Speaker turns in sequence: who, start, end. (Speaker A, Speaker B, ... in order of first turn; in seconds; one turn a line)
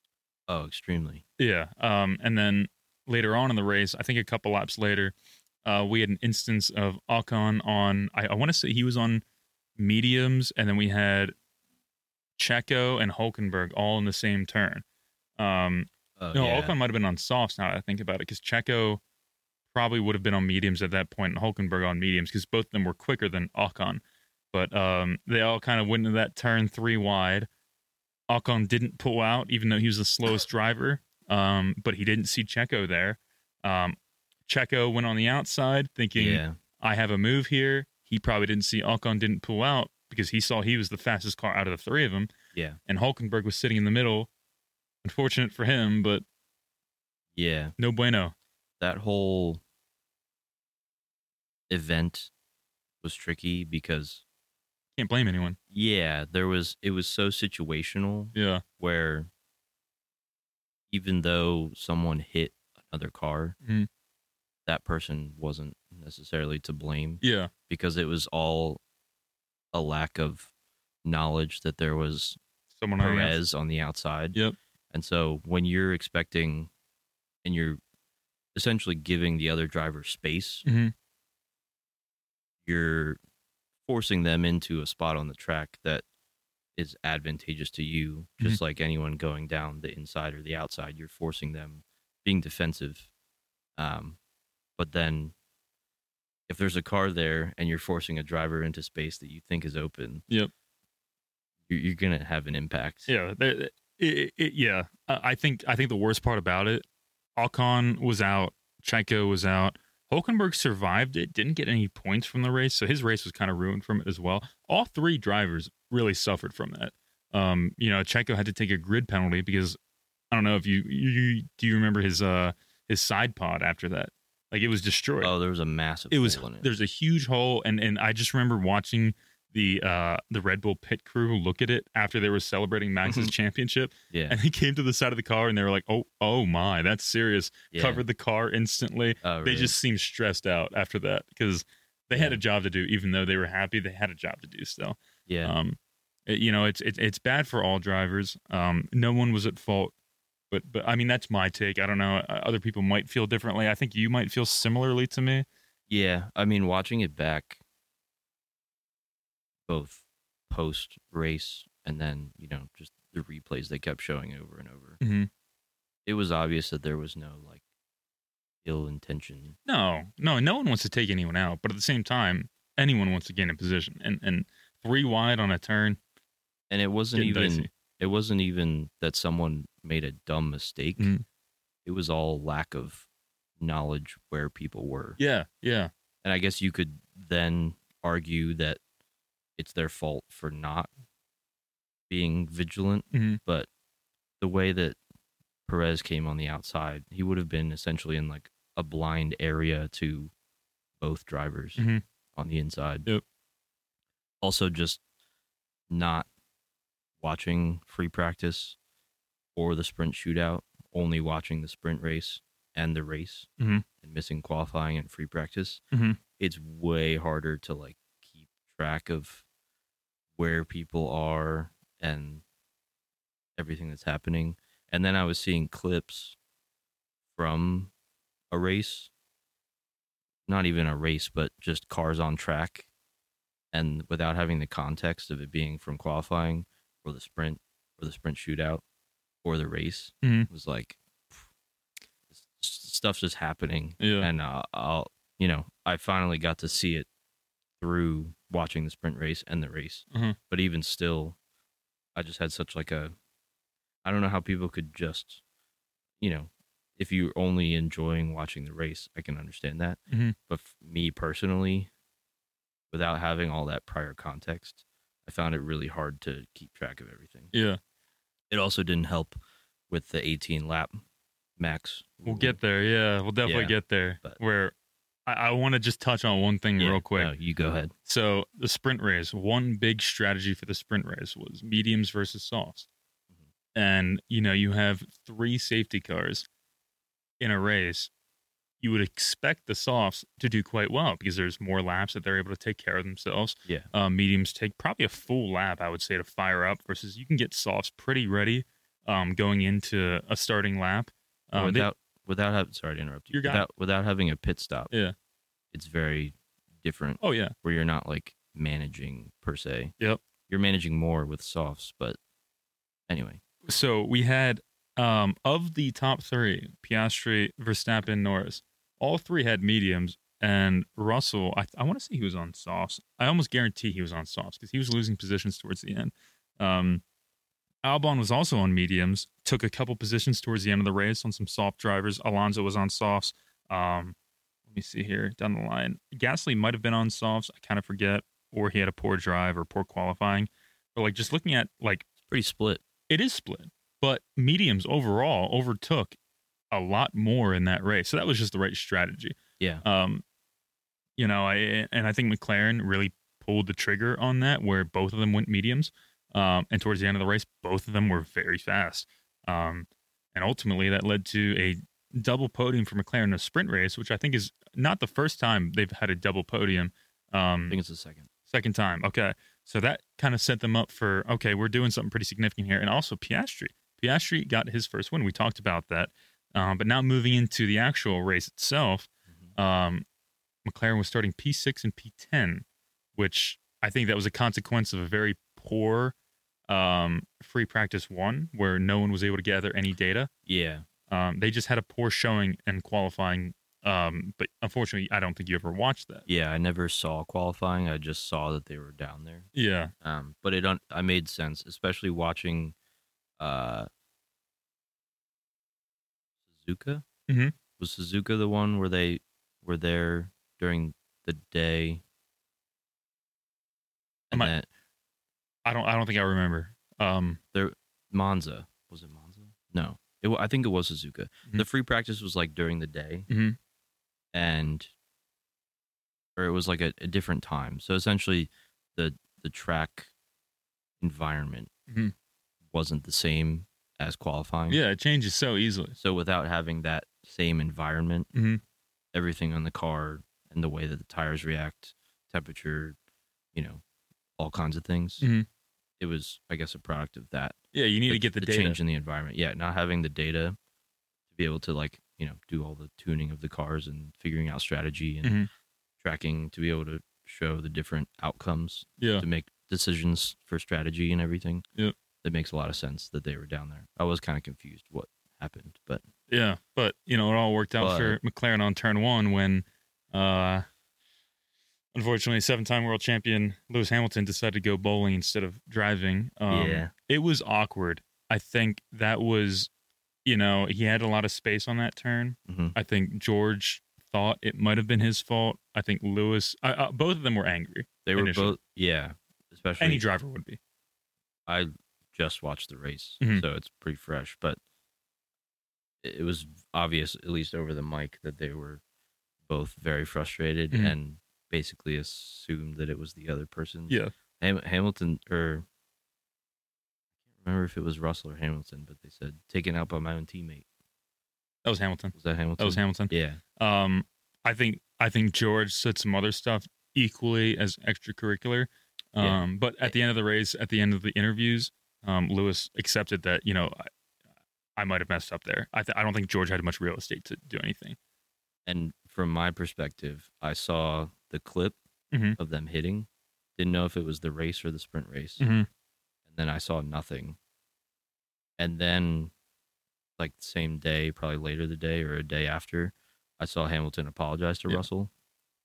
Speaker A: 0.5-1.2
Speaker B: 1.4-5.1
Speaker B: 5.7-9.2
Speaker B: 9.8-11.3
Speaker B: 12.4-14.8
Speaker B: 15.4-19.0
Speaker A: 16.2-16.8
Speaker B: 19.7-24.0
Speaker B: 24.5-27.5
Speaker B: 28.3-34.0
Speaker B: 34.5-42.3
Speaker A: 36.1-36.6
Speaker A: 42.5-42.8
Speaker B: 42.9-44.3
Speaker B: 45.0-46.2
Speaker A: 47.4-47.8
Speaker B: 47.8-48.3
Speaker A: 48.8-49.6
Speaker A: 51.7-52.3
Speaker A: 53.0-54.2
Speaker B: 55.0-55.6
Speaker A: 55.7-59.3
Speaker B: 58.4-58.6
Speaker A: 60.9-63.5
Speaker A: 64.7-68.8
Speaker B: 67.2-67.5
Speaker A: 69.7-70.5
Speaker A: 71.0-72.4
Speaker B: 72.8-73.4
Speaker A: 73.0-74.4
Speaker A: 74.9-76.7
Speaker A: 77.4-77.8
Speaker A: 78.5-80.7
Speaker B: 80.7-80.9
Speaker A: 82.7-83.2
Speaker A: 83.9-86.0
Speaker A: 86.8-93.1
Speaker A: 93.8-94.2
Speaker A: 94.8-95.3
Speaker A: 96.5-100.2
Speaker A: 101.7-103.1
Speaker B: 103.1-106.9
Speaker B: 107.4-119.8
Speaker B: 120.3-125.3
Speaker A: 125.2-126.7
Speaker B: 126.1-149.9
Speaker A: 133.1-133.3
Speaker A: 134.1-134.4
Speaker A: 137.7-138.0
Speaker A: 139.2-139.8
Speaker A: 142.1-142.4
Speaker A: 145.3-145.5
Speaker B: 150.5-155.5
Speaker A: 155.9-157.6
Speaker A: 159.7-165.0
Speaker B: 165.0-165.3
Speaker A: 166.1-167.6
Speaker A: 168.6-169.6
Speaker B: 169.7-176.0
Speaker A: 176.7-181.1
Speaker B: 177.1-177.7
Speaker B: 181.0-181.2
Speaker A: 181.8-183.1
Speaker A: 183.6-185.2
Speaker B: 185.2-185.9
Speaker A: 186.2-188.8
Speaker A: 189.6-190.9
Speaker A: 192.1-193.7
Speaker B: 193.1-193.4
Speaker A: 194.4-195.0
Speaker A: 195.7-200.3
Speaker A: 201.0-203.1
Speaker B: 201.8-202.0
Speaker A: 204.4-205.0
Speaker A: 205.9-206.3
Speaker A: 207.2-208.8
Speaker A: 209.6-213.5
Speaker B: 213.6-213.8
Speaker A: 214.0-215.8
Speaker B: 215.9-216.2
Speaker A: 216.4-219.4
Speaker A: 220.4-222.4
Speaker A: 223.6-226.4
Speaker A: 227.4-227.9
Speaker A: 228.5-229.1
Speaker A: 230.5-232.9
Speaker A: 233.7-238.8
Speaker A: 239.4-241.4
Speaker B: 240.2-240.5
Speaker A: 242.3-247.1
Speaker B: 244.0-244.3
Speaker A: 247.8-251.4
Speaker A: 252.2-253.1
Speaker A: 254.0-255.4
Speaker A: 256.2-261.9
Speaker B: 260.1-260.4
Speaker A: 262.9-267.5
Speaker B: 267.5-267.8
Speaker A: 268.5-269.4
Speaker A: 269.9-271.0
Speaker A: 271.6-272.6
Speaker B: 272.2-274.7
Speaker A: 273.4-274.4
Speaker B: 275.3-277.3
Speaker A: 276.8-277.9
Speaker B: 278.1-282.9
Speaker B: 283.8-286.4
Speaker B: 287.4-288.1
Speaker B: 288.8-301.9
Speaker A: 301.6-304.9
Speaker B: 303.3-303.7
Speaker A: 305.7-309.9
Speaker B: 307.2-307.5
Speaker A: 310.5-312.2
Speaker A: 313.1-313.4
Speaker B: 313.7-327.0
Speaker B: 327.8-334.1
Speaker B: 334.7-342.1
Speaker A: 342.2-342.8
Speaker B: 343.1-346.2
Speaker B: 346.7-350.2
Speaker B: 351.2-367.8
Speaker A: 367.7-368.3
Speaker B: 368.5-380.1
Speaker B: 380.6-382.6
Speaker B: 383.2-386.1
Speaker B: 386.7-390.3
Speaker A: 390.5-390.9
Speaker B: 391.1-396.3
Speaker A: 396.3-399.5
Speaker B: 399.6-399.9
Speaker A: 400.0-402.8
Speaker A: 403.4-403.9
Speaker A: 406.5-407.1
Speaker B: 407.3-407.6
Speaker A: 407.8-412.0
Speaker A: 414.3-414.7
Speaker B: 415.7-417.4
Speaker A: 417.5-423.3
Speaker B: 423.3-423.6
Speaker A: 424.3-424.9
Speaker A: 426.4-430.1
Speaker A: 431.0-431.7
Speaker A: 432.7-434.8
Speaker B: 434.7-435.9
Speaker A: 436.0-438.3
Speaker B: 438.3-438.6
Speaker A: 439.1-443.0
Speaker A: 443.5-443.8
Speaker A: 444.4-445.2
Speaker B: 445.2-445.5
Speaker A: 446.0-447.6
Speaker B: 447.7-448.8
Speaker A: 448.1-450.6
Speaker A: 451.3-455.4
Speaker B: 455.2-455.5
Speaker A: 456.0-461.6
Speaker B: 459.0-459.2
Speaker A: 462.2-466.0
Speaker B: 466.3-470.6
Speaker A: 467.8-468.2
Speaker B: 471.9-479.7
Speaker A: 476.5-476.9
Speaker B: 480.3-488.6
Speaker A: 482.5-482.8
Speaker A: 488.1-490.0
Speaker B: 489.8-490.6
Speaker A: 491.5-494.6
Speaker A: 496.0-498.8
Speaker A: 499.5-505.7
Speaker A: 507.4-510.6
Speaker B: 511.6-523.9
Speaker A: 512.1-513.4
Speaker A: 519.2-519.9
Speaker B: 524.8-528.0
Speaker A: 528.7-531.8
Speaker B: 532.1-532.4
Speaker A: 532.4-535.5
Speaker B: 535.4-535.7
Speaker A: 536.3-537.4
Speaker A: 538.6-539.3
Speaker A: 540.2-545.1